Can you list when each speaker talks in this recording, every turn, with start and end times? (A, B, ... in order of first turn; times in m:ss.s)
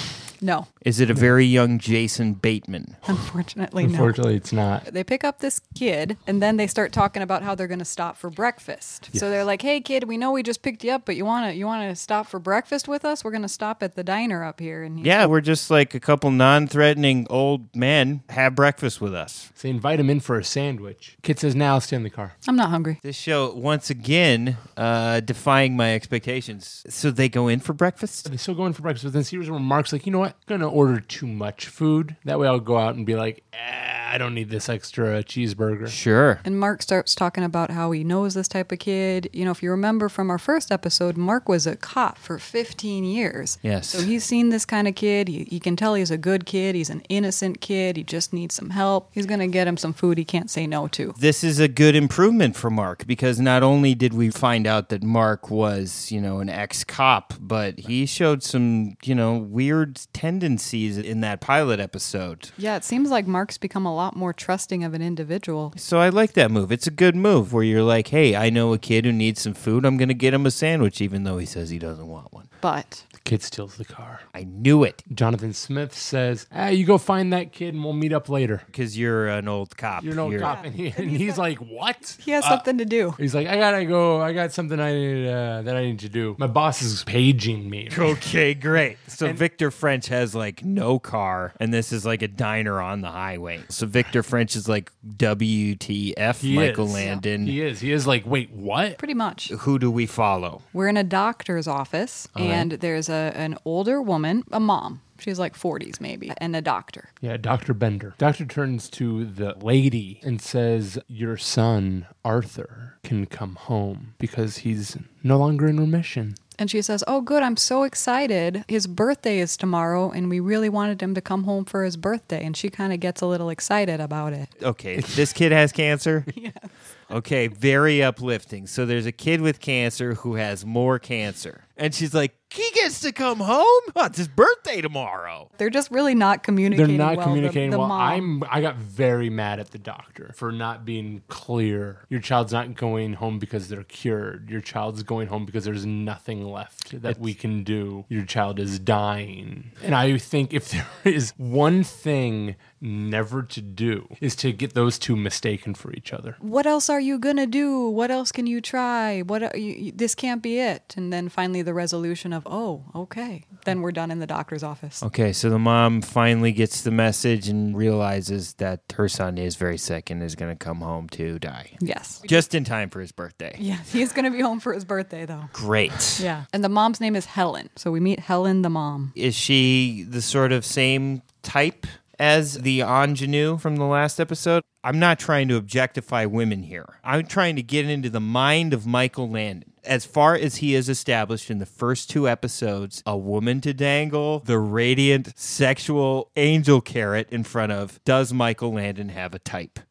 0:00.4-0:00.7 A
0:00.8-0:03.0 B
0:03.0-0:04.1 A
0:03.8-0:04.9 C
0:04.8-0:15.3 A
0:15.0-0:19.5 B
0:19.6-0:22.4 C
0:22.4-0:23.0 A
0:23.0-0:28.3 B
0:28.2-0:35.9 C
0:35.9-0:36.4 B
0:36.4-0:51.2 A
0:43.6-0:44.1 B
0:51.2-1:02.5 B
1:02.6-1:05.7 A
1:05.8-1:12.5 B
1:12.6-1:13.0 A
1:13.2-1:14.2 C
1:14.3-1:15.0 B
1:15.1-1:18.6 C
1:18.7-1:20.5 B
1:20.0-1:22.6 C
1:20.4-1:21.4 A
1:22.2-1:23.2 A
1:23.2-1:28.2 C
1:27.9-1:37.6 B
1:36.4-1:39.0 C
1:37.0-1:37.2 A
1:39.0-1:39.5 A
1:39.5-1:40.6 B
1:40.7-1:47.1 A
1:42.3-1:42.7 B
1:47.2-1:56.4 C
1:56.6-2:04.5 A
2:04.6-2:06.3 B
2:06.3-2:06.7 A
2:07.1-2:15.5 B
2:15.6-2:18.3 A
2:16.7-2:36.4 C
2:36.4-2:45.0 A
2:45.0-2:53.6 B
2:51.8-2:52.4 A
2:53.6-2:55.5 A
2:55.5-2:56.3 B
2:56.2-2:59.1 A
2:59.2-3:19.8 B